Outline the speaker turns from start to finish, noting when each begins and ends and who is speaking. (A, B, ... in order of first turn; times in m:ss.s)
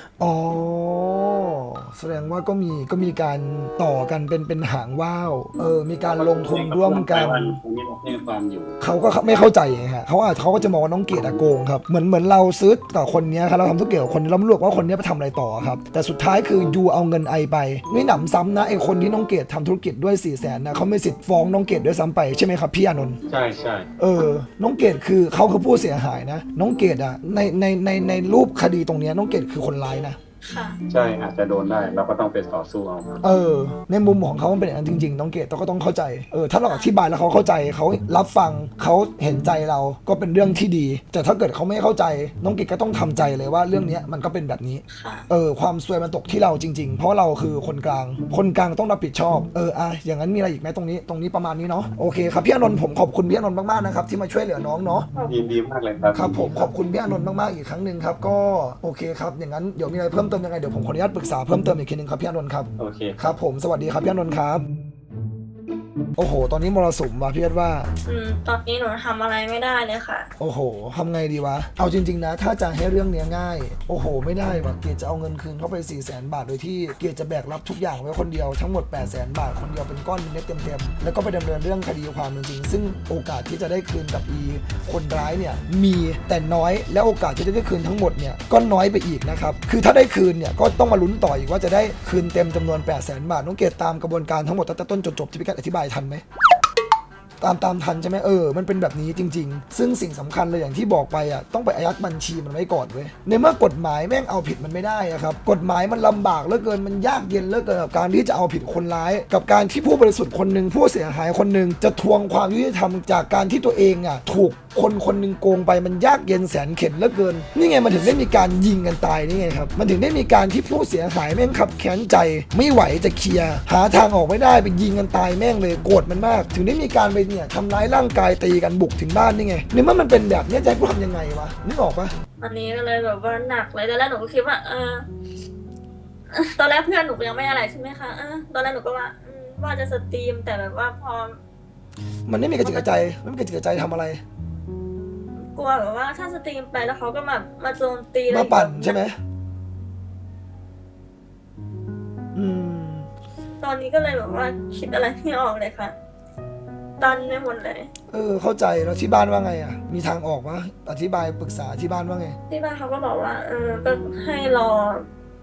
0:00.2-0:07.6 A
0:06.1-0:08.8 B
0:08.8-0:23.2 A
0:09.2-0:09.5 C
0:11.1-0:11.5 B
0:23.3-0:23.9 B
0:24.0-0:30.2 A
0:30.4-0:30.8 C
0:30.9-0:33.2 B
0:33.2-0:55.1 A
0:44.9-0:45.3 C
0:55.2-0:55.5 C
0:55.3-0:56.7 B
0:56.1-1:04.6 A
1:02.8-1:03.3 B
1:06.2-1:07.9 A
1:08.1-1:10.3 C
1:10.4-1:36.2 A
1:37.4-2:12.1 A
2:12.4-2:15.1 C
2:16.3-2:21.4 C
2:22.3-2:24.2 A
2:25.5-2:29.0 C
2:28.3-2:29.2 A
2:32.3-2:33.1 A
2:33.6-2:35.9 C
2:37.0-2:37.9 C
2:38.1-2:42.4 A
2:42.5-2:45.0 C